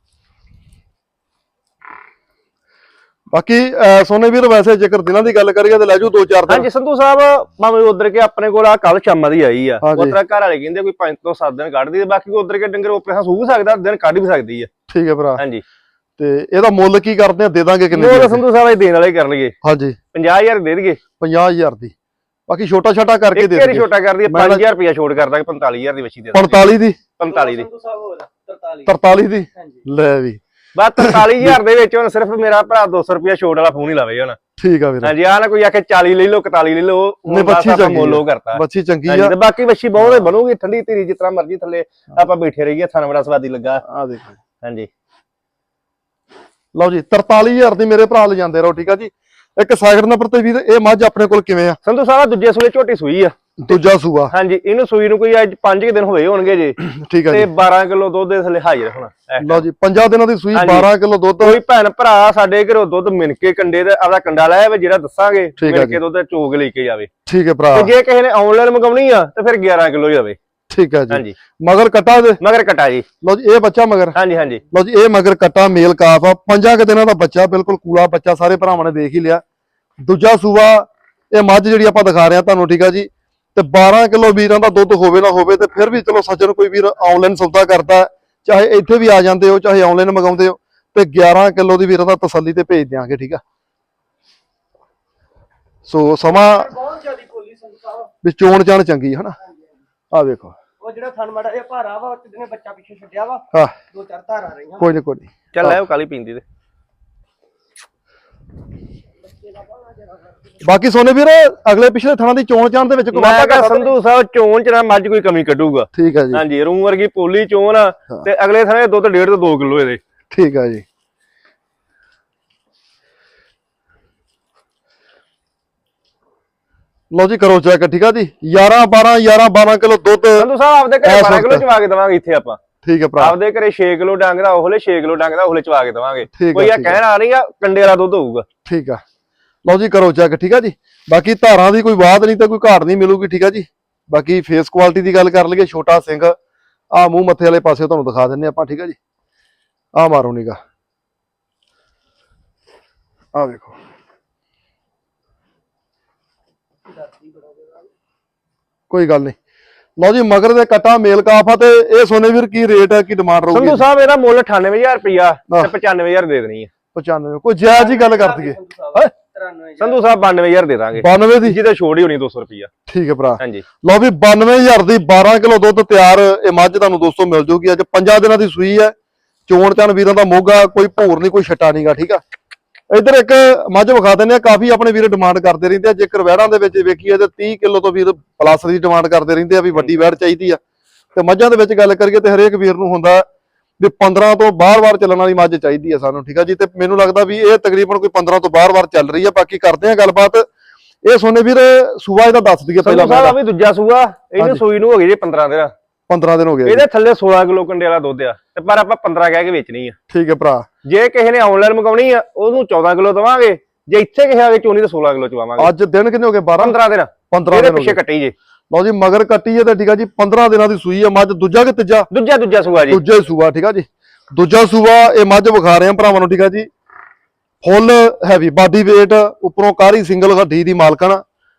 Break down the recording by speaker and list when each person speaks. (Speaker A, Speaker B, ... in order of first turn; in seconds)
Speaker A: 3.3-6.7, 9.8-10.2, 14.9-15.4, 16.2-18.4, 19.6-20.0, 21.2-21.9, 22.5-24.6, 26.3-27.0, 28.9-30.4, 31.0-31.6, 34.6-35.1, 37.3-39.3, 40.0-40.2, 43.8-44.4, 46.7-51.8, 53.6-54.3, 56.8-57.5, 59.4-61.6, 65.6-66.0, 67.3-67.9, 70.7-72.4, 73.2-74.2, 74.7-79.4, 80.0-93.4, 95.8-96.7, 98.2-99.3, 100.1-100.5, 103.5-103.8, 104.8-105.8, 110.6-113.9, 115.9-116.4, 120.3-120.8, 127.1-130.5, 131.0-131.6, 132.8-133.4, 136.3-137.0, 138.6-139.0, 139.6-146.3, 146.9-148.9, 149.9-150.6, 153.3-153.7, 158.9-159.3, 160.0-163.8, 166.9-169.1, 170.9-171.6, 172.9-178.9, 179.5-182.2, 182.9-190.6, 191.1-193.2, 193.8-200.4, 201.0-203.4, 206.1-206.8, 210.1-210.7, 215.6-216.8, 217.3-218.0, 218.7-222.1, 222.9-226.7, 227.6-231.2
Speaker B: 6.5-14.7, 15.4-15.6, 17.9-19.5, 20.1-21.0, 23.4-26.6, 27.2-27.7, 30.7-34.4, 35.0-43.8, 44.6-44.9, 51.8-53.8, 54.3-59.6, 60.5-67.1, 67.7-70.4, 71.1-71.3, 72.4-73.0, 74.1-74.6, 105.5-106.4, 113.1-120.0, 130.4-132.6, 133.2-138.4, 163.5-166.7, 169.8-172.7, 189.7-190.0, 202.8-205.7, 206.6-209.9, 210.8-215.7, 216.6-218.3, 222.1-223.0
Speaker C: 27.3-28.9, 96.5-98.1, 100.8-104.9, 109.4-110.3, 156.9-157.9, 167.6-170.0